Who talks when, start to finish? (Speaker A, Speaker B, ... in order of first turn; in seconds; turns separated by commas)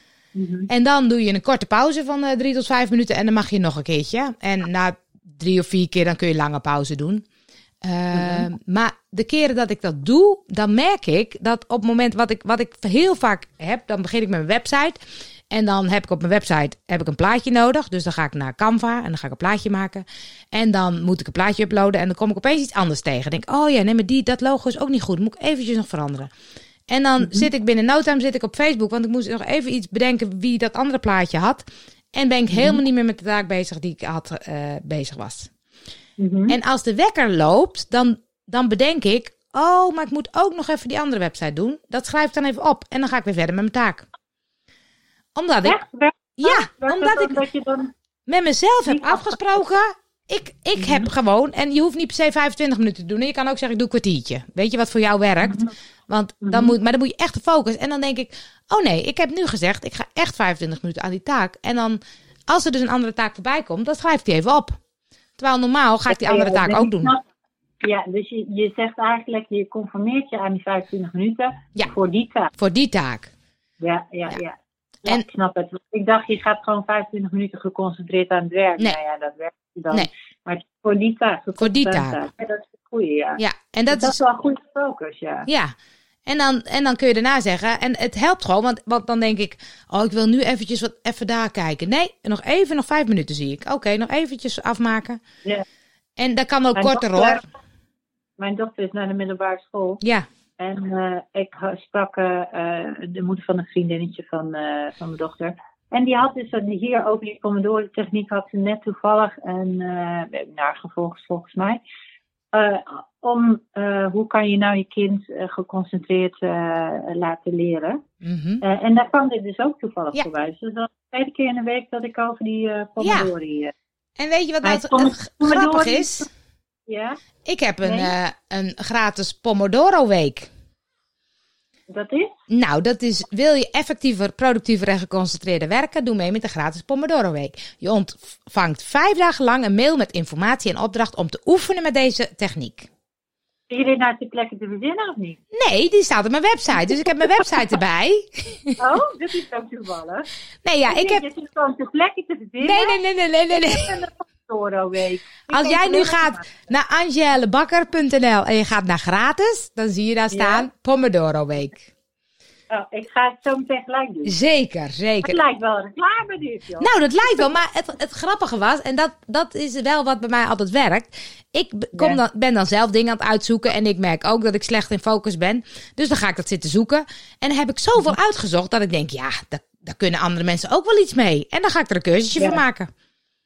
Speaker A: 0.3-0.7, Speaker B: 0.7-7.2, Speaker B: 7.8-15.0, Speaker A: 8.1-8.5, Speaker B: 15.5-26.3, Speaker B: 26.9-31.6, Speaker A: 27.2-27.5, Speaker B: 32.1-35.5, Speaker A: 32.5-32.8, Speaker A: 36.2-36.6, Speaker B: 36.5-44.0, Speaker B: 45.4-45.8, Speaker A: 45.6-47.9, Speaker B: 46.4-47.4, Speaker B: 48.3-64.8, Speaker A: 48.9-49.4, Speaker A: 50.8-51.1, Speaker A: 56.4-56.8, Speaker B: 65.4-67.1, Speaker A: 66.1-67.2, Speaker A: 67.8-72.5, Speaker B: 72.6-73.3, Speaker A: 73.8-85.5, Speaker B: 81.6-82.2, Speaker B: 83.4-84.2, Speaker B: 85.5-85.7, Speaker B: 86.3-95.2, Speaker B: 96.2-97.4, Speaker A: 96.8-97.4, Speaker A: 98.4-100.0, Speaker A: 100.6-111.8, Speaker A: 112.5-118.0, Speaker B: 118.2-118.6, Speaker A: 118.6-123.7, Speaker B: 123.0-123.3, Speaker B: 124.2-126.2, Speaker A: 124.6-126.3, Speaker A: 126.9-127.2, Speaker B: 127.5-130.5, Speaker A: 127.8-128.1, Speaker A: 131.9-132.3, Speaker B: 132.5-142.9, Speaker A: 143.7-145.4, Speaker B: 145.5-148.8, Speaker A: 146.8-147.5, Speaker A: 148.8-150.3, Speaker B: 150.6-151.2, Speaker A: 150.9-153.0, Speaker B: 152.6-154.0, Speaker A: 153.6-156.6, Speaker B: 155.5-161.8, Speaker A: 160.3-160.7, Speaker A: 162.7-164.3, Speaker B: 164.3-165.4, Speaker A: 165.2-167.6, Speaker B: 166.8-182.9, Speaker A: 171.9-172.2, Speaker A: 182.4-182.6